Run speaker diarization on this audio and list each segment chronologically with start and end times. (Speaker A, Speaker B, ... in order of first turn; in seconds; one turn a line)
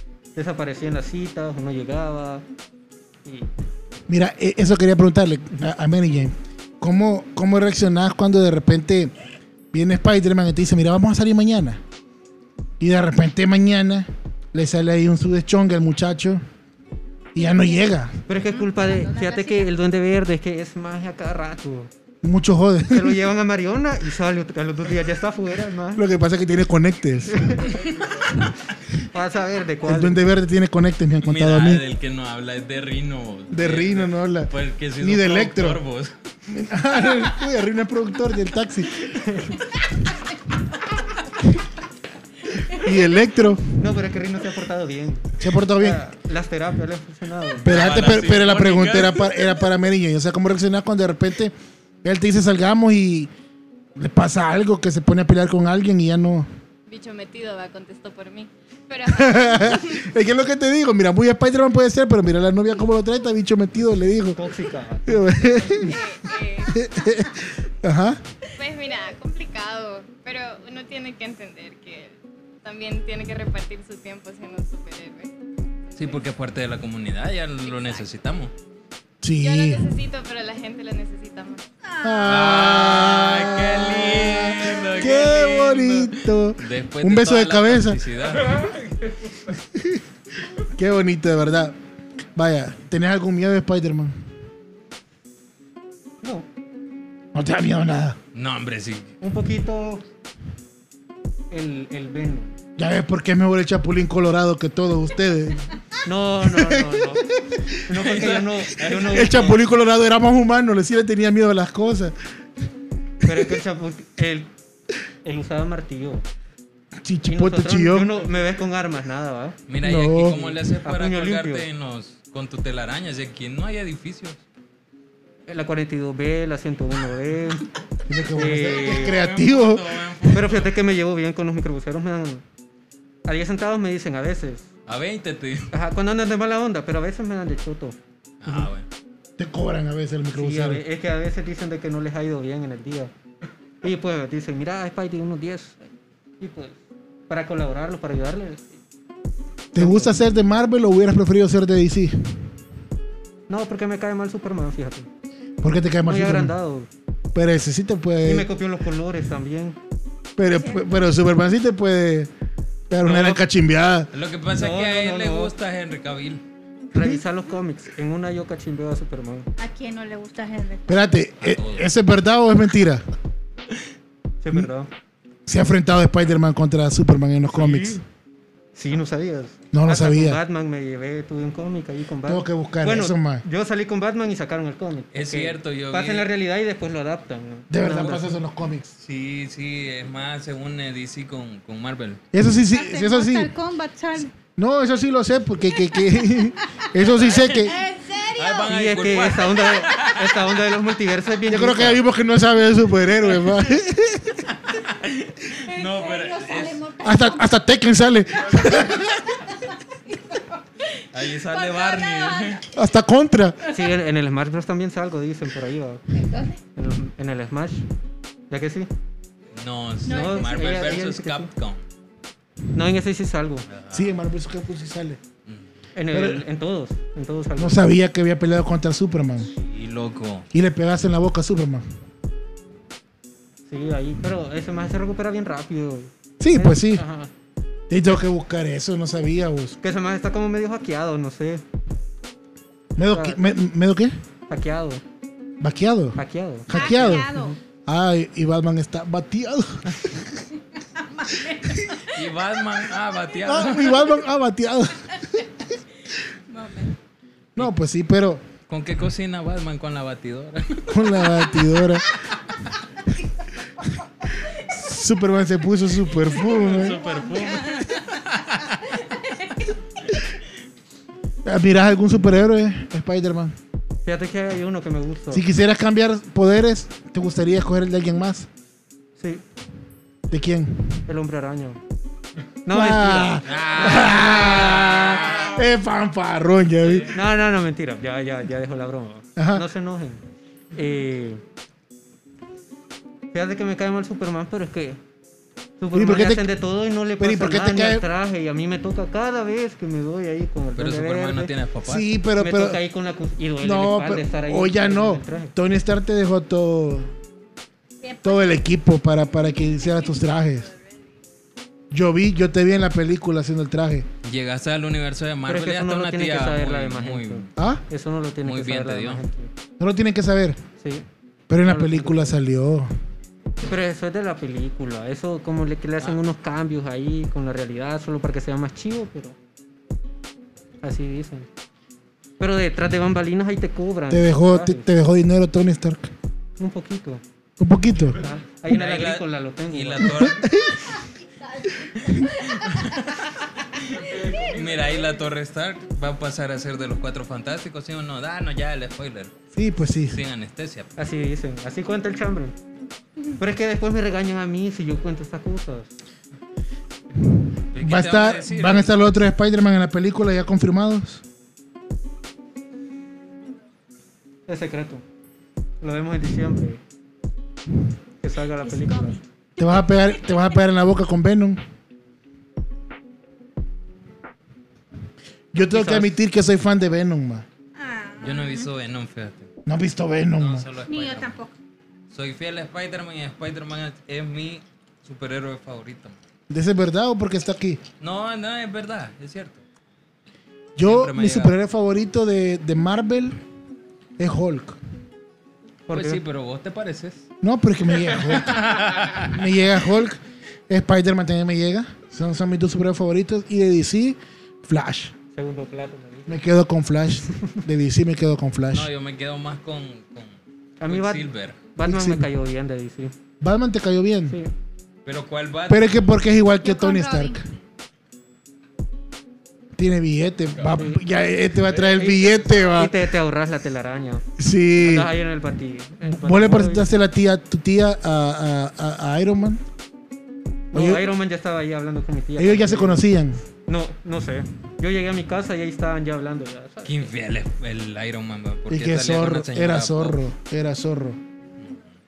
Speaker A: 0.4-2.4
Speaker A: 3.2-3.5
Speaker B: 4.1-9.1
Speaker B: 9.7-11.8
Speaker B: 12.8-16.4
Speaker B: 17.4-18.1
Speaker C: 17.4-19.7
Speaker A: 18.3-21.9
Speaker B: 22.2-23.2
Speaker A: 22.9-26.1
Speaker B: 25.9-27.7
Speaker A: 27.3-27.9
Speaker A: 29.0-30.2
Speaker B: 29.9-31.8
Speaker D: 31.2-36.1
Speaker B: 33.5-35.8
Speaker B: 36.5-39.0
Speaker A: 39.1-39.6
Speaker B: 42.7-43.6
Speaker A: 43.8-47.7
Speaker B: 45.4-46.0
Speaker B: 47.6-53.3
Speaker D: 47.6-49.3
Speaker B: 54.0-56.5
Speaker E: 56.9-60.1
Speaker B: 59.1-64.5
Speaker A: 64.4-65.9
Speaker B: 65.1-66.0
Speaker E: 65.8-66.8
Speaker B: 66.7-68.2
Speaker E: 68.6-75.3
Speaker D: 76.0-78.5
Speaker E: 77.7-78.0
Speaker B: 79.2-79.9
Speaker E: 79.4-81.7
Speaker C: 81.8-82.7
Speaker B: 82.0-88.0
Speaker D: 82.2-88.6
Speaker B: 89.6-90.0
Speaker B: 90.8-91.8
Speaker B: 92.3-94.1
Speaker B: 97.3-98.2
Speaker D: 98.3-99.1
Speaker A: 99.2-100.0
Speaker A: 101.5-102.5
Speaker B: 102.8-105.6
Speaker A: 106.0-107.2
Speaker B: 106.5-107.7
Speaker A: 107.9-109.6
Speaker D: 107.9-109.5
Speaker B: 109.0-112.2
Speaker A: 113.2-114.5
Speaker A: 115.2-116.2
Speaker B: 117.0-118.1
Speaker A: 117.3-119.6
Speaker D: 119.7-124.4
Speaker B: 119.8-120.6
Speaker A: 120.8-121.7
Speaker A: 125.5-127.7
Speaker B: 128.1-129.9
Speaker A: 128.3-129.2
Speaker D: 128.7-130.7
Speaker A: 130.3-132.4
Speaker A: 133.3-134.7
Speaker D: 134.9-135.7
Speaker A: 135.7-138.0
Speaker D: 138.4-138.9
Speaker B: 139.4-140.8
Speaker A: 140.3-143.1
Speaker A: 143.8-145.9
Speaker A: 146.4-146.8
Speaker A: 147.3-148.8
Speaker A: 149.8-150.2
Speaker B: 149.8-152.5
Speaker A: 153.5-155.1
Speaker B: 155.6-156.5
Speaker A: 156.1-156.9
Speaker B: 157.3-158.5
Speaker A: 158.2-159.8
Speaker B: 160.4-162.3
Speaker C: 160.5-161.0
Speaker B: 162.9-164.1
Speaker A: 163.0-163.4
Speaker D: 164.1-166.4
Speaker A: 164.5-165.5
Speaker A: 166.9-169.5
Speaker C: 169.6-171.0
Speaker B: 170.9-173.1
Speaker D: 171.4-171.9
Speaker A: 174.4-174.9
Speaker B: 175.5-178.0
Speaker A: 177.5-178.0
Speaker A: 178.8-188.3
Speaker B: 179.7-180.4
Speaker B: 182.2-183.4
Speaker D: 185.1-186.3
Speaker B: 187.7-188.9
Speaker D: 189.0-192.2
Speaker B: 192.3-193.5
Speaker C: 192.7-194.3
Speaker B: 194.4-197.8
Speaker C: 196.2-196.5
Speaker C: 197.0-198.7
Speaker D: 197.1-197.7
Speaker D: 198.3-200.4
Speaker A: 198.7-202.0
Speaker B: 201.5-204.4
Speaker D: 204.6-206.8
Speaker C: 205.7-207.5
Speaker B: 207.0-209.3
Speaker C: 209.0-212.7
Speaker D: 211.1-212.6
Speaker B: 212.7-213.6
Speaker A: 213.7-216.1
Speaker C: 216.1-216.6
Speaker A: 216.8-217.8
Speaker A: 218.5-218.9
Speaker D: 219.6-221.8
Speaker C: 220.1-220.7
Speaker A: 220.1-221.5
Speaker A: 222.7-223.7
Speaker D: 223.7-224.2
Speaker B: 223.9-225.2
Speaker A: 225.9-227.8
Speaker B: 226.1-226.4
Speaker B: 227.6-229.5
Speaker D: 229.5-230.5
Speaker B: 230.5-231.8
Speaker A: 233.7-237.3
Speaker B: 236.4-237.0
Speaker B: 237.9-239.8
Speaker A: 239.8-241.6
Speaker B: 243.0-244.2
Speaker A: 243.0-243.4
Speaker A: 244.5-245.0
Speaker B: 245.6-250.4
Speaker A: 246.2-247.2
Speaker C: 246.7-247.6
Speaker C: 251.0-252.0
Speaker B: 251.6-251.9
Speaker D: 252.1-254.2
Speaker B: 253.4-255.1
Speaker C: 256.5-257.0
Speaker B: 257.6-258.4
Speaker D: 258.7-261.6
Speaker B: 260.9-262.1
Speaker B: 264.4-267.0
Speaker D: 266.4-269.1
Speaker C: 267.1-267.9
Speaker B: 271.4-273.6
Speaker A: 274.1-275.4
Speaker B: 275.3-278.5
Speaker B: 280.3-281.0
Speaker A: 281.1-281.8
Speaker A: 282.6-284.9
Speaker B: 282.7-287.1
Speaker D: 283.4-285.6
Speaker A: 287.1-290.2
Speaker B: 289.4-289.7
Speaker A: 290.7-291.4
Speaker A: 293.3-295.0
Speaker A: 295.8-301.5
Speaker B: 295.9-296.5
Speaker B: 297.2-298.0
Speaker D: 300.8-302.1
Speaker B: 301.9-302.8
Speaker A: 302.4-305.5
Speaker B: 303.6-307.1
Speaker C: 308.0-308.6
Speaker B: 308.2-310.7
Speaker B: 311.9-314.1
Speaker D: 314.2-317.5
Speaker A: 315.5-319.5
Speaker B: 317.6-317.8
Speaker D: 318.4-319.2
Speaker B: 319.8-320.6
Speaker A: 320.8-321.1
Speaker B: 321.5-322.9
Speaker A: 321.6-322.4
Speaker A: 323.6-329.4
Speaker A: 330.8-331.5
Speaker A: 332.4-334.9
Speaker B: 334.1-336.1
Speaker A: 336.6-337.2
Speaker B: 337.6-338.2
Speaker A: 338.2-340.3
Speaker D: 338.7-340.5
Speaker B: 340.1-340.9
Speaker D: 342.1-349.3
Speaker B: 349.5-350.2
Speaker D: 350.1-351.0
Speaker A: 351.0-352.5
Speaker A: 353.4-355.9
Speaker D: 357.8-359.1
Speaker B: 357.8-361.2
Speaker A: 364.5-365.0
Speaker A: 365.8-366.8
Speaker A: 368.2-369.2
Speaker C: 368.6-369.2
Speaker B: 369.6-371.6
Speaker B: 375.5-377.5
Speaker A: 375.7-376.2
Speaker C: 377.8-378.7
Speaker D: 378.2-379.5
Speaker B: 379.7-380.7
Speaker D: 380.4-381.4
Speaker C: 380.8-381.6
Speaker D: 382.1-386.2
Speaker B: 386.5-387.8
Speaker D: 388.0-389.6
Speaker B: 390.8-393.4
Speaker D: 390.8-391.6
Speaker B: 394.2-394.8
Speaker A: 395.9-396.2
Speaker D: 395.9-397.3
Speaker B: 397.4-398.6
Speaker D: 398.2-399.4
Speaker B: 399.2-405.1
Speaker A: 405.4-406.4
Speaker B: 406.3-408.9
Speaker D: 408.7-411.6
Speaker A: 410.8-413.1
Speaker B: 411.8-412.3
Speaker B: 413.4-414.4
Speaker D: 415.1-416.1
Speaker B: 415.7-417.4
Speaker C: 416.6-417.4
Speaker B: 419.8-422.9
Speaker A: 420.7-421.0
Speaker A: 421.8-424.3
Speaker B: 424.4-425.1
Speaker A: 424.8-426.9
Speaker B: 426.1-429.6
Speaker A: 430.7-433.1
Speaker B: 430.7-431.1
Speaker B: 432.4-433.4
Speaker A: 433.7-437.1
Speaker D: 436.9-440.2
Speaker B: 438.7-441.2